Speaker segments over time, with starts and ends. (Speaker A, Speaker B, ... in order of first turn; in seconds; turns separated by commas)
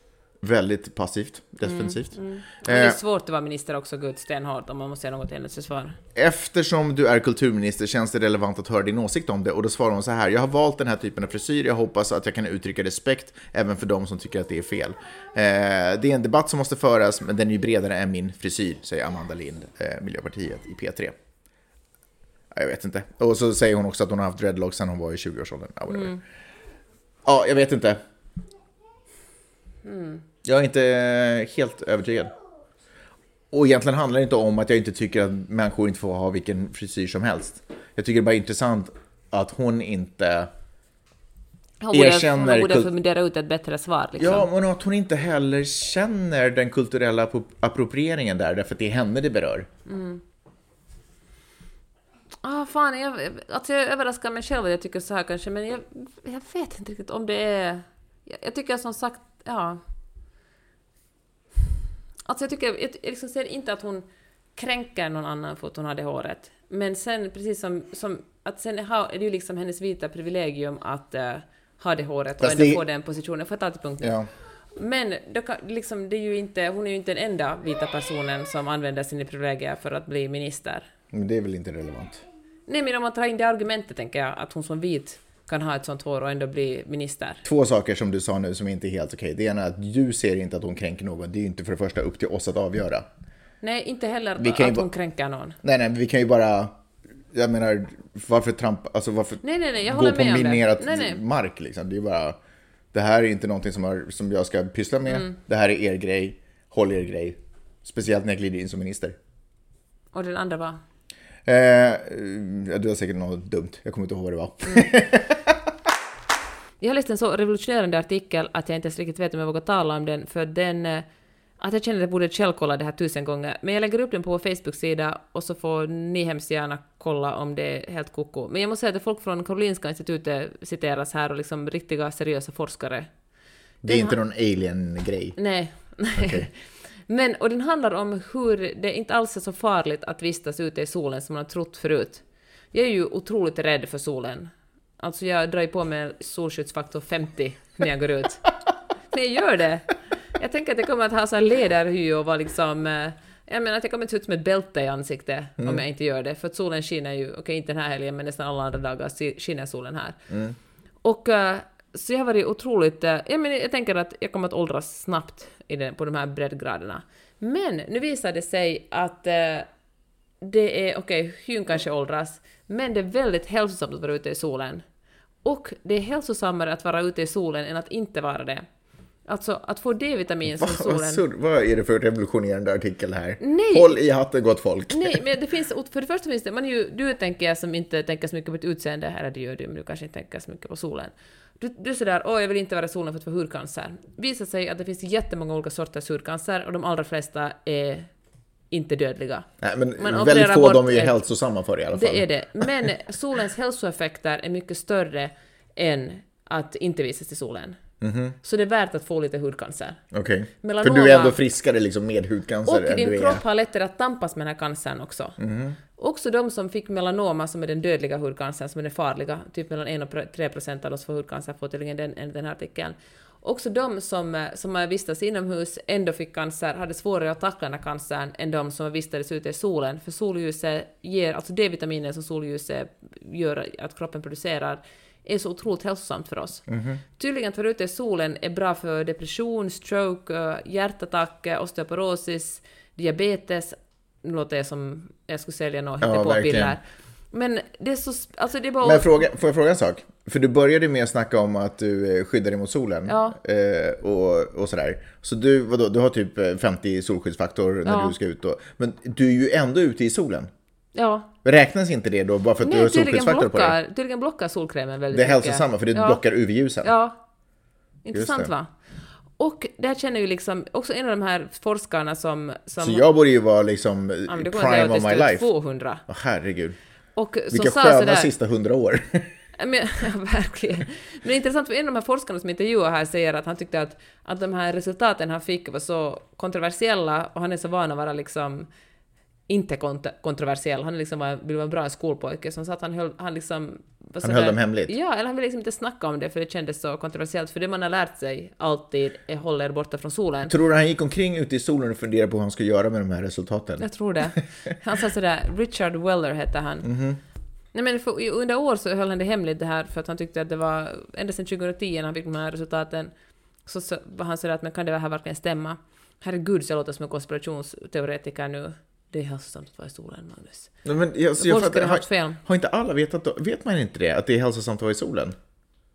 Speaker A: 0.4-3.0, Speaker B: 1.6-6.0, Speaker A: 6.2-21.1, Speaker A: 22.5-26.2, Speaker B: 25.9-26.2, Speaker A: 27.2-28.0, Speaker B: 29.9-30.2, Speaker A: 30.4-32.3, Speaker A: 33.5-40.5, Speaker B: 41.8-44.5, Speaker A: 41.9-42.9, Speaker A: 44.2-49.7, Speaker B: 49.9-50.2, Speaker B: 52.4-59.8, Speaker B: 62.3-64.0, Speaker B: 64.6-74.1, Speaker A: 72.4-72.8, Speaker A: 74.0-74.3, Speaker B: 74.8-80.9, Speaker A: 81.1-82.2, Speaker B: 82.7-87.4, Speaker A: 87.4-93.1, Speaker B: 93.6-95.6, Speaker A: 94.4-94.9, Speaker A: 95.6-96.8, Speaker A: 97.3-102.4, Speaker B: 99.4-101.2, Speaker A: 102.9-109.2, Speaker B: 105.1-105.4, Speaker B: 110.1-110.8, Speaker A: 111.5-115.6, Speaker B: 116.8-121.0, Speaker B: 121.6-133.1, Speaker A: 133.8-135.4, Speaker B: 133.9-134.2, Speaker B: 135.4-148.5, Speaker A: 136.2-136.5, Speaker B: 149.1-160.3, Speaker A: 160.3-160.6, Speaker B: 161.0-169.7, Speaker B: 170.4-174.8, Speaker B: 175.4-178.7, Speaker B: 179.3-181.2, Speaker A: 180.6-185.2, Speaker B: 183.4-184.0, Speaker B: 184.9-198.1, Speaker B: 198.7-199.5, Speaker A: 199.6-202.7, Speaker B: 200.0-201.2, Speaker B: 201.9-207.8, Speaker A: 208.0-208.4, Speaker B: 208.4-210.0, Speaker A: 210.1-213.4, Speaker B: 210.6-211.4, Speaker B: 212.7-215.4, Speaker A: 215.4-215.8, Speaker B: 215.9-236.6, Speaker A: 236.7-237.0, Speaker B: 237.2-249.2, Speaker A: 246.0-246.8, Speaker A: 248.8-260.5, Speaker B: 253.1-253.4, Speaker B: 257.9-258.1, Speaker B: 260.9-261.3, Speaker A: 261.4-263.8, Speaker B: 262.6-266.2, Speaker A: 265.1-266.9, Speaker B: 266.8-267.2, Speaker B: 268.1-268.7, Speaker A: 268.1-268.5, Speaker B: 269.4-273.0, Speaker A: 272.8-275.5, Speaker B: 274.3-276.1, Speaker A: 276.1-276.8, Speaker B: 277.2-278.3, Speaker A: 277.5-279.3, Speaker B: 279.6-288.7, Speaker B: 289.5-300.5, Speaker A: 294.2-294.9, Speaker A: 300.5-304.3, Speaker B: 303.8-306.9, Speaker A: 306.8-307.2, Speaker B: 307.7-313.1, Speaker B: 313.6-320.7, Speaker A: 320.9-325.4, Speaker B: 321.4-322.4